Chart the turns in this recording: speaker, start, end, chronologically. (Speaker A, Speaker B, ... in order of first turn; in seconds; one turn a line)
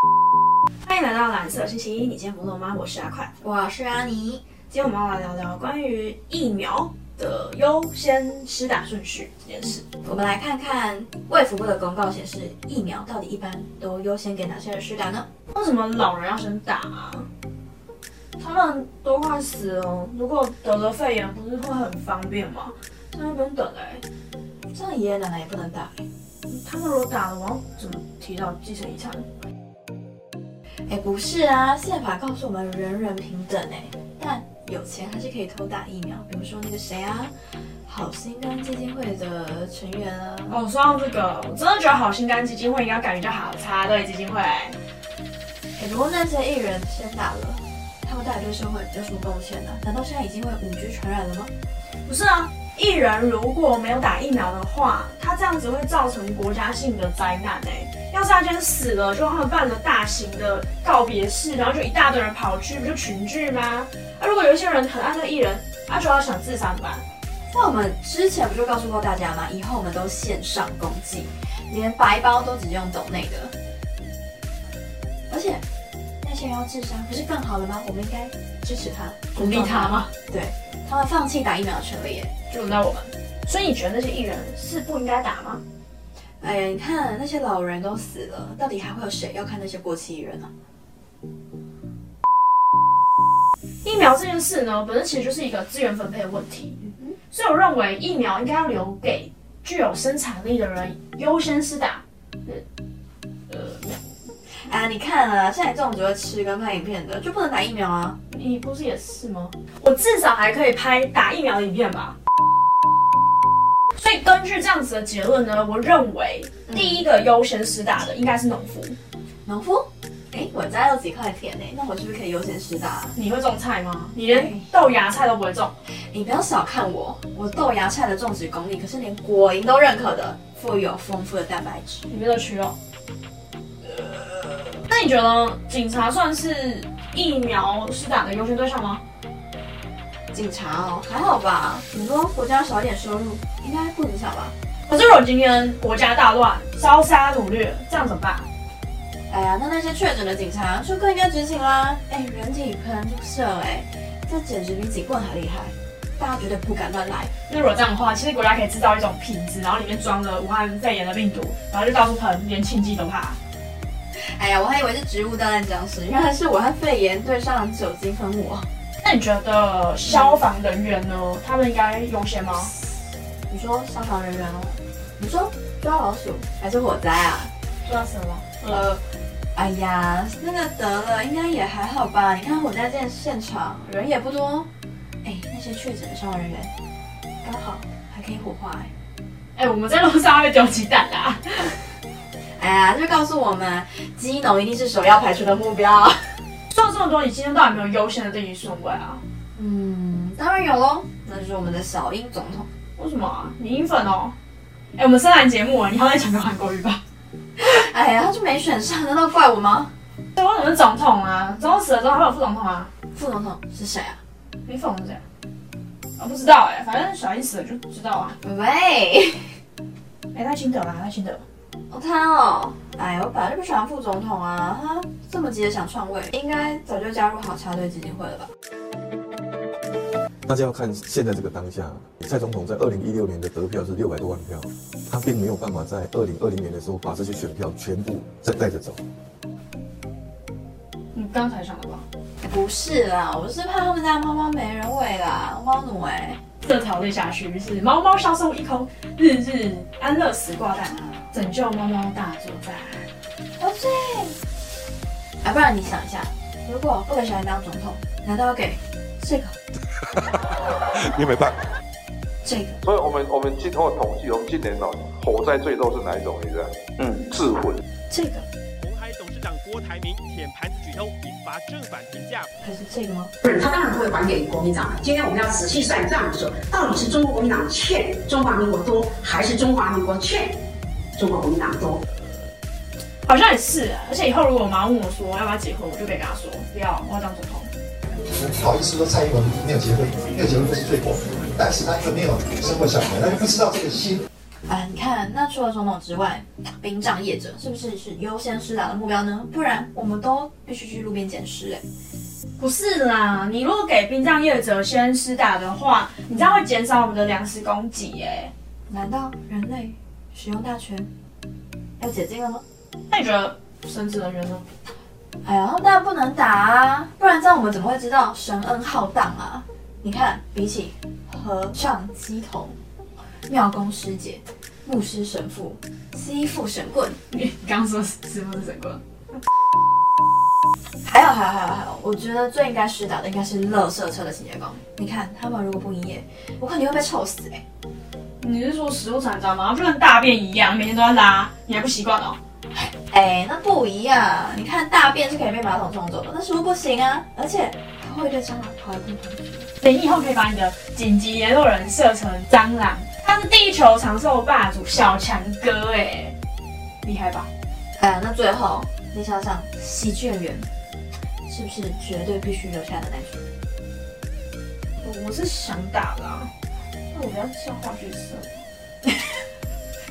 Speaker A: 0.8-3.3
Speaker B: 3.4-4.5
Speaker A: 4.7-9.8
Speaker B: 10.0-15.3
Speaker A: 15.5-17.3
Speaker A: 18.4-24.0
Speaker B: 24.7-26.1
Speaker A: 26.5-29.2
Speaker B: 30.9-37.3
Speaker B: 37.8-40.6
Speaker A: 40.5-44.8
Speaker B: 45.8-51.5
Speaker A: 52.0-67.0
Speaker B: 67.5-73.5
Speaker B: 75.3-75.6
Speaker B: 76.2-82.3
Speaker A: 79.3-80.1
Speaker A: 82.5-85.6
Speaker B: 86.4-90.5
Speaker A: 93.8-102.6
Speaker A: 103.5-104.0
Speaker B: 104.6-108.2
Speaker A: 108.3-112.2
Speaker A: 113.9-119.0
Speaker B: 116.7-117.0
Speaker B: 119.4-123.2
Speaker A: 123.1-125.7
Speaker B: 124.3-124.7
Speaker B: 126.1-132.1
Speaker A: 132.1-132.8
Speaker A: 133.9-139.0
Speaker B: 140.3-144.5
Speaker A: 144.9-148.5
Speaker B: 149.3-157.3
Speaker A: 157.5-163.4
Speaker B: 164.1-168.7
Speaker A: 169.0-172.7
Speaker B: 170.1-170.4
Speaker B: 173.5-177.5
Speaker A: 177.8-178.8
Speaker B: 178.7-179.0
Speaker B: 179.5-184.7
Speaker B: 185.2-186.7
Speaker B: 187.4-188.9
Speaker A: 189.6-191.8
Speaker B: 192.6-196.4
Speaker A: 196.7-199.2
Speaker B: 199.5-202.7
Speaker A: 203.0-204.3
Speaker A: 204.9-207.0
Speaker B: 207.6-209.9
Speaker A: 210.4-212.9
Speaker B: 213.1-214.2
Speaker A: 214.7-215.2
Speaker A: 216.2-218.3
Speaker B: 218.4-219.6
Speaker A: 220.3-221.4
Speaker B: 221.9-228.5
Speaker C: 230.5-239.0
Speaker A: 241.1-242.0
Speaker B: 242.4-246.4
Speaker A: 246.6-253.1
Speaker B: 253.6-254.4
Speaker B: 255.4-259.6
Speaker B: 262.4-262.8
Speaker D: 262.8-267.8
Speaker B: 268.1-268.5
Speaker E: 268.8-272.5
Speaker B: 272.6-273.3
Speaker F: 273.4-282.0
Speaker A: 283.2-287.7
Speaker G: 288.3-294.2
Speaker B: 294.7-301.9
Speaker A: 302.6-308.5
Speaker B: 308.9-311.1
Speaker B: 312.0-312.6
Speaker A: 313.1-314.6
Speaker B: 315.4-322.8
Speaker B: 323.5-327.2
Speaker A: 327.3-329.0
Speaker B: 331.0-337.6
Speaker A: 338.4-342.4
Speaker B: 342.7-349.7
Speaker A: 349.8-356.4
Speaker A: 357.0-357.5
Speaker B: 358.0-360.7
Speaker B: 361.5-363.5
Speaker A: 365.0-366.5
Speaker A: 367.1-368.6